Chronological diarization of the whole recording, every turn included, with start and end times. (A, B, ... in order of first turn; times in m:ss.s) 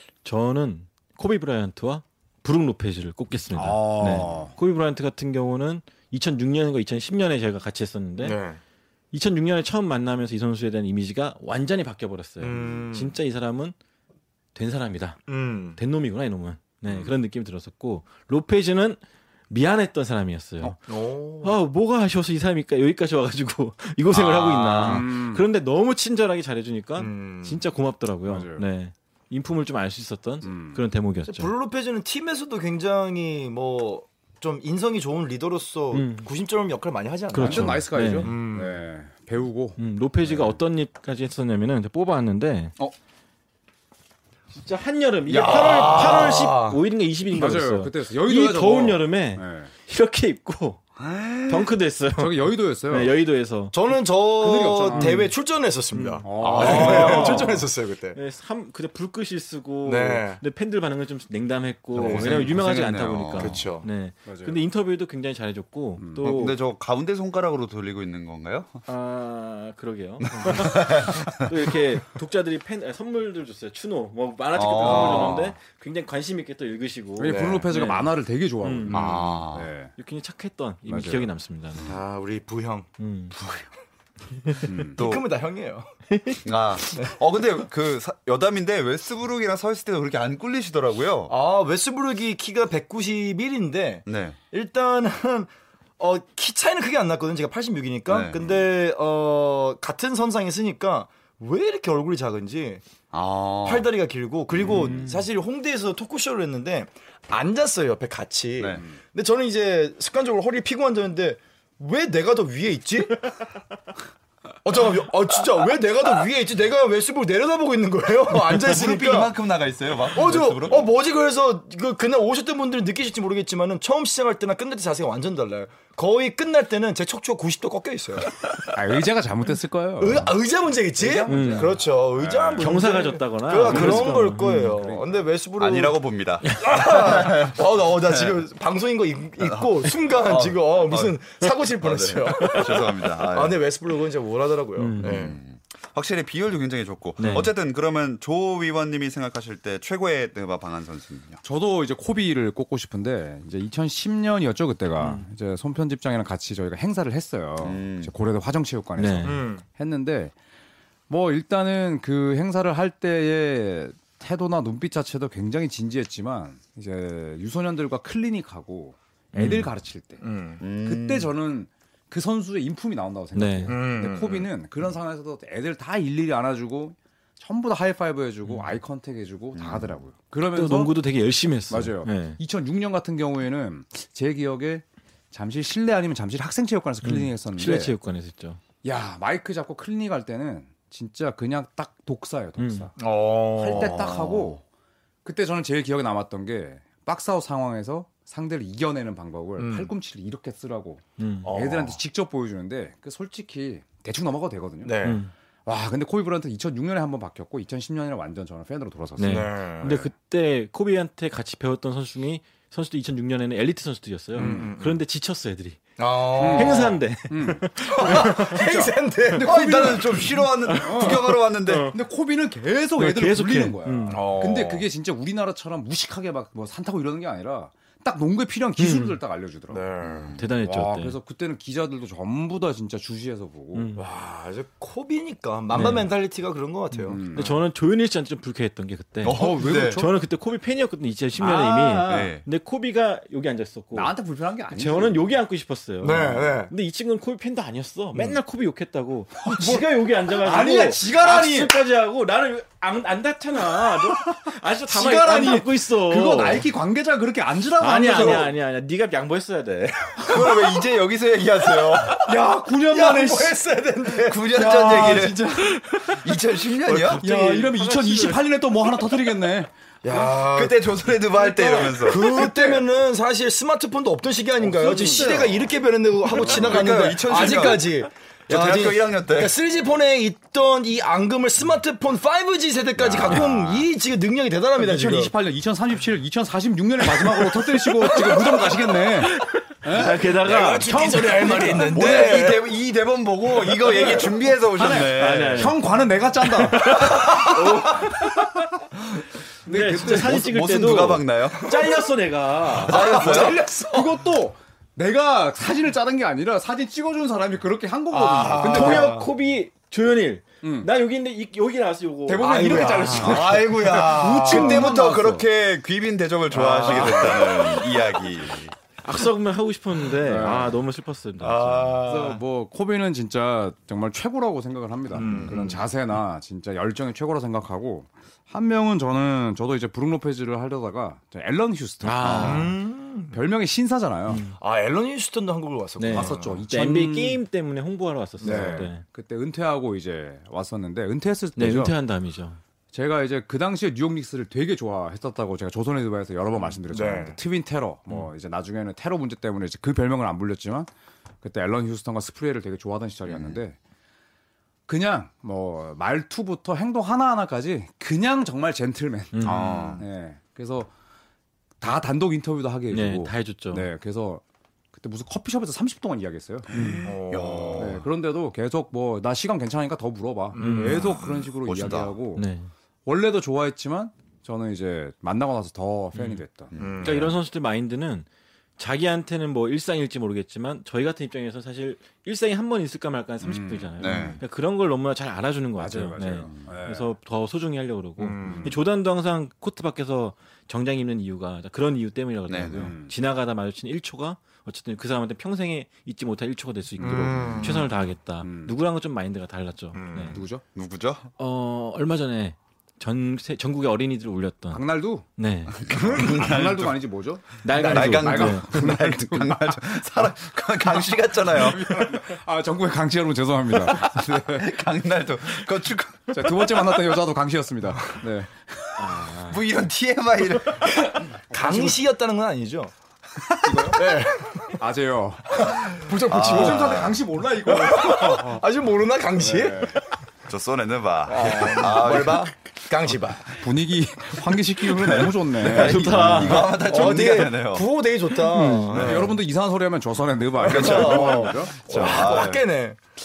0:00.2-0:08.4 A
0:03.5-0:04.5 B
0:08.2-0:08.6 C
0:09.1-0:13.7 A
0:12.4-0:13.1 C
0:14.5-0:15.2 A
0:15.3-0:15.8 C
0:15.8-0:20.8 A
0:20.9-0:21.6 C
0:21.4-0:31.5 A
0:24.1-0:25.0 C
0:24.8-0:25.4 B
0:27.0-0:27.6 C
0:28.3-0:28.6 B
0:30.4-0:30.8 B
0:31.3-0:38.8 C
0:35.9-0:36.3 A
0:37.3-0:38.3 A
0:37.4-0:40.6 B
0:39.8-0:42.7 A
0:44.5-0:50.8 A
0:45.3-0:46.8 C
0:45.4-0:46.2 B
0:47.3-0:49.7 B
0:51.0-0:51.7 D
0:51.5-0:53.7 A
0:52.2-0:53.1 B
0:53.7-0:58.2 C
0:53.9-0:55.3 B
0:54.9-0:55.3 A
0:55.9-1:06.6 A
0:56.2-0:57.6 B
0:56.6-0:57.3 D
0:59.8-1:00.4 C
1:01.9-1:02.5 C
1:01.9-1:03.6 D
1:03.4-1:03.9 C
1:04.2-1:04.6 B
1:06.0-1:06.3 B
1:06.2-1:08.8 D
1:08.9-1:19.1 A
1:10.4-1:11.3 D
1:14.5-1:15.5 D
1:14.8-1:15.5 C
1:17.2-1:19.9 B
1:17.3-1:17.6 C
1:18.9-1:19.7 D
1:20.0-1:21.9 A
1:20.9-1:21.3 B
1:21.8-1:22.9 C
1:23.0-1:23.4 A
1:24.6-1:25.0 B
1:24.9-1:25.9 C
1:25.0-1:25.2 D
1:26.1-1:26.4 A
1:26.4-1:31.3 D
1:31.3-1:42.8 C
1:34.1-1:34.4 D
1:38.1-1:38.7 D
1:43.1-1:43.9 D
1:43.6-1:53.3 C
1:44.5-1:45.1 D
1:48.6-1:48.8 D
1:54.6-1:59.3 C
1:58.4-2:00.9 D
2:00.1-2:08.7 C
2:08.7-2:10.3 B
2:10.0-2:25.4 C
2:11.0-2:12.7 B
2:11.3-2:11.8 A
2:12.6-2:14.8 A
2:13.6-2:15.3 B
2:15.6-2:18.4 D
2:19.4-2:23.6 D
2:24.8-2:25.3 A
2:25.0-2:31.4 D
2:27.2-2:27.5 A
2:31.4-2:40.3 B
2:35.0-2:35.3 A
2:37.6-2:38.1 D
2:39.0-2:39.4 A
2:39.2-2:39.6 C
2:41.1-3:01.0 B
2:49.3-2:49.7 A
2:50.2-2:50.6 C
2:50.6-2:51.3 D
2:53.3-2:53.8 A
2:53.7-2:54.5 C
2:58.4-2:58.7 A
2:59.5-2:59.9 D
3:00.5-3:02.4 A
3:01.7-3:07.9 B
3:07.0-3:08.6 A
3:08.8-3:13.0 B
3:12.6-3:12.9 A
3:13.0-3:14.3 C
3:13.5-3:14.6 B
3:13.8-3:14.6 D
3:15.2-3:25.0 B
3:19.6-3:19.9 C
3:21.2-3:21.5 A
3:21.4-3:22.0 C
3:24.8-3:25.2 C
3:25.0-3:25.3 A
3:25.6-3:30.1 B
3:29.2-3:35.9 A
3:29.2-3:30.0 C
3:34.4-3:35.0 C
3:34.4-3:34.7 B
3:36.0-3:37.0 C
3:36.3-3:40.3 B
3:36.4-3:38.6 A
3:37.8-3:40.3 C
3:39.4-3:42.0 D
3:40.7-3:41.9 A
3:40.8-3:53.9 B
3:43.0-3:44.2 A
3:44.1-3:44.8 C
3:48.8-3:49.2 A
3:49.7-3:50.3 C
3:50.0-3:50.4 D
3:50.4-3:51.2 A
3:53.7-3:54.0 A
3:53.9-3:57.3 C
3:55.7-3:56.1 A
3:57.1-3:57.5 B
3:57.2-4:04.1 A
3:59.2-4:00.0 D
3:59.3-4:00.2 B
4:01.7-4:02.3 B
4:02.0-4:02.4 D
4:03.9-4:05.3 B
4:04.7-4:16.7 A
4:06.0-4:06.7 C
4:06.2-4:06.4 B
4:09.5-4:11.8 B
4:14.9-4:15.6 C
4:15.3-4:18.5 B
4:17.8-4:20.3 A
4:18.1-4:18.5 C
4:20.2-4:22.2 D
4:20.3-4:20.8 C
4:21.7-4:26.2 C
4:22.2-4:23.6 B
4:24.2-4:27.2 D
4:24.9-4:25.4 B
4:26.9-4:27.7 C
4:27.0-4:28.4 A
4:27.1-4:29.7 B
4:30.0-4:45.3 C
4:30.1-4:32.7 D
4:32.1-4:32.7 B
4:34.6-4:35.7 B
4:36.3-4:39.5 D
4:36.4-4:36.9 B
4:43.0-4:43.9 B
4:44.8-4:52.3 B
4:47.2-4:48.7 C
4:49.4-4:51.8 A
4:50.0-4:52.7 C
4:51.8-4:55.7 D
4:53.4-4:54.3 C
4:54.7-4:58.3 B
4:55.1-4:55.8 A
4:56.4-4:58.1 A
4:57.0-4:58.1 C
4:59.6-5:00.6 B
4:59.6-5:03.1 A
5:00.1-5:01.8 D
5:01.6-5:02.0 C
5:02.8-5:04.3 C
5:02.9-5:03.6 D
5:03.1-5:09.3 B
5:08.1-5:09.3 C
5:08.6-5:13.3 A
5:10.6-5:10.9 B
5:12.2-5:15.4 B
5:12.4-5:14.9 C
5:13.1-5:18.7 D
5:16.5-5:17.8 C
5:16.9-5:17.4 B
5:19.0-5:22.0 A
5:20.2-5:20.8 B
5:21.4-5:22.4 C
5:22.0-5:32.7 B
5:25.1-5:25.8 C
5:25.2-5:25.5 D
5:32.0-5:32.7 A
5:32.2-5:32.7 D
5:32.4-5:33.4 C
5:33.3-5:34.4 B
5:34.3-5:34.6 A
5:34.6-5:36.6 C
5:36.0-5:39.0 A
5:36.1-5:37.4 B
5:38.4-5:38.9 C
5:38.4-5:41.9 B
5:41.6-5:42.6 A
5:42.9-5:50.9 B
5:46.9-5:47.4 C
5:51.4-5:53.8 B
5:53.3-5:53.6 D
5:54.9-6:00.9 B
5:59.3-6:00.0 A
5:59.4-6:00.0 D
6:01.8-6:04.4 B
6:02.9-6:03.9 A
6:04.9-6:06.7 B
6:06.7-6:08.0 D
6:06.7-6:07.1 A
6:07.0-6:08.0 C
6:07.8-6:12.4 B
6:10.5-6:11.1 C
6:10.6-6:11.0 A
6:11.0-6:12.1 D
6:12.3-6:12.7 A
6:13.0-6:17.3 B
6:16.1-6:16.4 A
6:16.7-6:17.2 D
6:16.8-6:17.4 C
6:17.0-6:18.3 A
6:18.8-6:40.4 A
6:23.4-6:24.4 B
6:24.0-6:24.4 D
6:25.8-6:27.1 B
6:28.2-6:28.7 C
6:28.4-6:28.8 B
6:32.5-6:32.9 D
6:32.7-6:33.1 B
6:37.0-6:37.9 C
6:37.2-6:37.8 B
6:38.4-6:38.7 B
6:39.9-6:40.4 C
6:40.3-6:40.6 B
6:40.7-6:41.3 D
6:41.4-6:44.8 A
6:44.7-6:49.8 B
6:45.4-6:45.8 A
6:45.7-6:47.0 D
6:47.6-6:48.7 A
6:47.8-6:52.1 D
6:51.0-6:54.7 B
6:54.5-6:56.9 D
6:56.3-6:59.2 B
6:59.0-6:59.6 A
6:59.5-7:01.1 D
7:01.0-7:02.9 C
7:01.5-7:02.0 B
7:03.4-7:03.9 D
7:03.6-7:08.6 B
7:03.9-7:04.8 C
7:05.5-7:07.1 C
7:06.3-7:07.2 D
7:07.6-7:10.0 C
7:09.4-7:10.0 B
7:10.5-7:12.5 D
7:11.3-7:13.5 C
7:13.5-7:17.0 B
7:14.9-7:17.9 D
7:15.6-7:16.9 A
7:16.6-7:19.3 C
7:18.5-7:22.6 B
7:18.9-7:19.3 D
7:20.6-7:23.0 C
7:20.6-7:22.6 D